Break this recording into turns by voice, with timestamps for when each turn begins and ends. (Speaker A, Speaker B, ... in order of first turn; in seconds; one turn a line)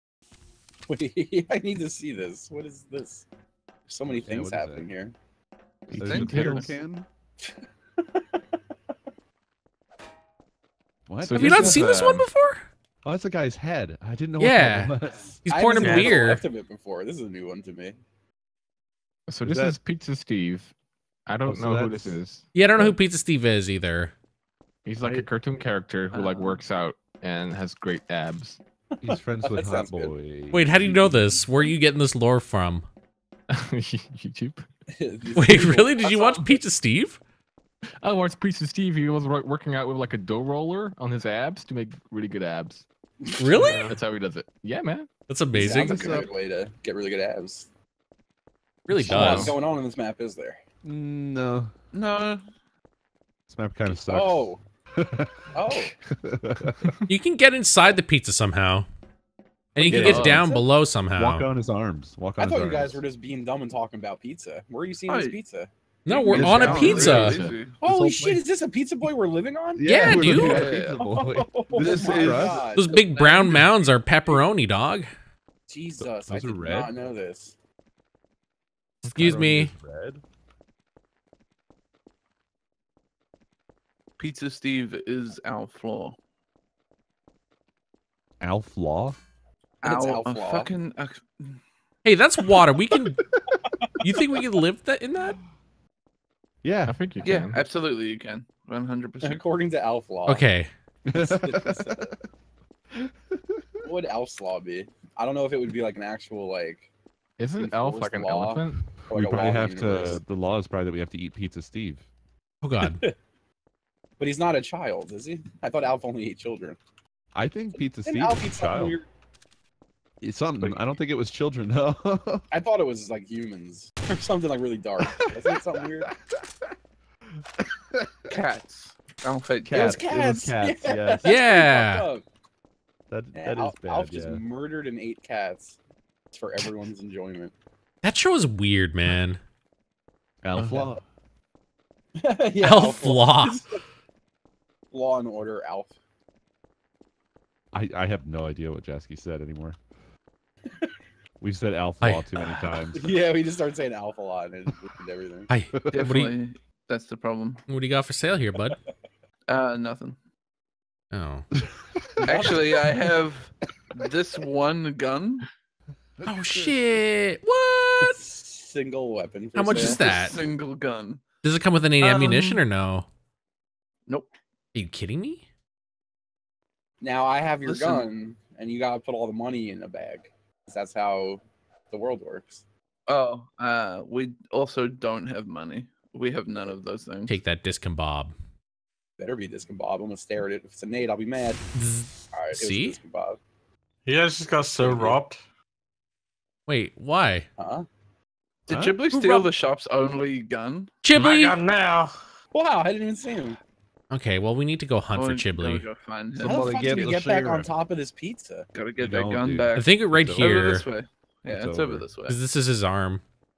Speaker A: 0.9-3.2
Speaker A: 3.9-5.1
Speaker B: 4.1-4.9
Speaker C: 5.9-6.8
Speaker D: 5.9-6.7
Speaker B: 5.9-7.1
Speaker A: 8.0-8.4
Speaker B: 11.1-11.9
Speaker C: 11.2-12.3
Speaker E: 11.3-12.7
Speaker B: 13.0-15.4
Speaker E: 14.4-16.4
Speaker A: 15.5-17.9
Speaker F: 15.8-16.1
Speaker C: 19.3-20.7
Speaker B: 19.4-19.8
Speaker C: 21.3-23.0
Speaker B: 21.5-22.2
Speaker E: 22.5-24.1
Speaker C: 24.9-28.6
Speaker D: 26.1-26.6
Speaker B: 29.0-31.5
Speaker A: 29.0-30.1
Speaker E: 30.5-32.9
Speaker C: 33.5-34.6
Speaker A: 35.0-36.6
Speaker E: 35.3-37.2
Speaker C: 38.0-42.9
Speaker A: 43.2-43.7
Speaker E: 43.4-43.9
Speaker F: 43.6-44.0
Speaker C: 43.7-45.1
Speaker E: 45.3-46.2
Speaker A: 45.5-47.6
Speaker B: 45.5-46.3
Speaker E: 48.9-49.6
Speaker B: 49.0-49.5
Speaker C: 49.0-49.5
Speaker A: 49.0-50.6
Speaker B: 50.8-51.7
Speaker D: 51.9-52.4
Speaker B: 53.5-57.0
Speaker A: 53.9-54.6
Speaker A: 55.5-55.9
Speaker E: 57.1-58.9
Speaker E: 59.7-61.5
Speaker A: 59.8-60.6
Speaker B: 59.8-60.5
Speaker D: 60.0-60.4
Speaker B: 61.1-63.0
Speaker A: 62.4-67.2
Speaker D: 65.1-65.4
Speaker E: 66.0-67.4
Speaker B: 66.3-68.5
Speaker C: 66.3-67.6
Speaker D: 66.4-67.8
Speaker A: 67.8-73.5
Speaker B: 69.8-72.7
Speaker E: 69.8-70.6
Speaker D: 70.2-71.0
Speaker D: 71.8-74.4
Speaker E: 72.7-75.1
Speaker A: 75.7-77.5
Speaker B: 76.0-76.9
Speaker E: 79.0-79.7
Speaker B: 79.1-80.2
Speaker D: 84.2-86.2
Speaker B: 88.4-89.2
Speaker A: 89.8-90.7
Speaker D: 89.8-91.6
Speaker E: 92.0-93.2
Speaker A: 93.8-94.4
Speaker E: 94.0-95.4
Speaker B: 96.6-97.2
Speaker C: 96.9-97.6
Speaker D: 97.2-99.4
Speaker A: 99.2-100.5
Speaker E: 100.2-100.7
Speaker B: 101.0-102.1
Speaker A: 101.2-102.1
Speaker B: 102.9-103.8
Speaker A: 103.8-106.9
Speaker C: 107.4-108.8
Speaker A: 107.6-110.2
Speaker B: 109.0-112.0
Speaker E: 112.6-113.0
Speaker A: 112.8-113.1
Speaker A: 114.2-116.8
Speaker B: 117.3-119.0
Speaker A: 118.0-119.1
Speaker B: 120.2-122.4
Speaker A: 122.5-126.1
Speaker B: 125.0-126.7
Speaker B: 127.6-128.2
Speaker D: 128.3-130.0
Speaker B: 129.7-131.2
Speaker A: 129.7-132.2
Speaker E: 131.2-132.1
Speaker B: 133.1-134.4
Speaker A: 133.3-135.8
Speaker A: 136.3-137.5
Speaker E: 138.0-139.4
Speaker B: 140.4-141.0
Speaker C: 140.6-140.9
Speaker A: 142.2-143.7
Speaker E: 142.6-143.7
Speaker A: 144.9-145.9
Speaker B: 147.7-149.8
Speaker B: 151.4-153.1
Speaker E: 152.0-152.3
Speaker A: 152.4-155.5
Speaker E: 155.5-156.3
Speaker D: 155.9-157.6
Speaker E: 157.7-158.8
Speaker D: 159.5-160.2
Speaker E: 161.1-161.5
Speaker B: 161.6-162.5
Speaker D: 162.2-165.5
Speaker A: 162.3-162.6
Speaker B: 166.2-166.8
Speaker E: 166.2-168.1
Speaker A: 168.0-170.2
Speaker E: 169.6-170.4
Speaker D: 169.7-171.2
Speaker E: 171.4-173.1
Speaker D: 172.0-172.6
Speaker F: 172.1-172.3
Speaker E: 174.7-175.4
Speaker A: 177.0-182.6
Speaker D: 177.6-178.1
Speaker D: 183.1-187.4
Speaker E: 187.3-188.3
Speaker A: 189.2-191.7
Speaker E: 191.7-193.0
Speaker A: 192.3-193.4
Speaker F: 194.1-195.4
Speaker E: 196.7-197.5
Speaker A: 197.6-197.9
Speaker D: 198.7-200.9
Speaker B: 198.7-199.0
Speaker E: 199.1-199.5
Speaker E: 201.0-201.6
Speaker F: 201.1-202.1
Speaker A: 202.5-203.6
Speaker E: 204.1-205.9
Speaker D: 205.1-207.1
Speaker B: 206.4-207.7
Speaker A: 206.4-208.7
Speaker D: 208.7-212.4
Speaker B: 209.0-210.6
Speaker E: 209.8-210.9
Speaker B: 211.5-212.1
Speaker E: 212.3-213.2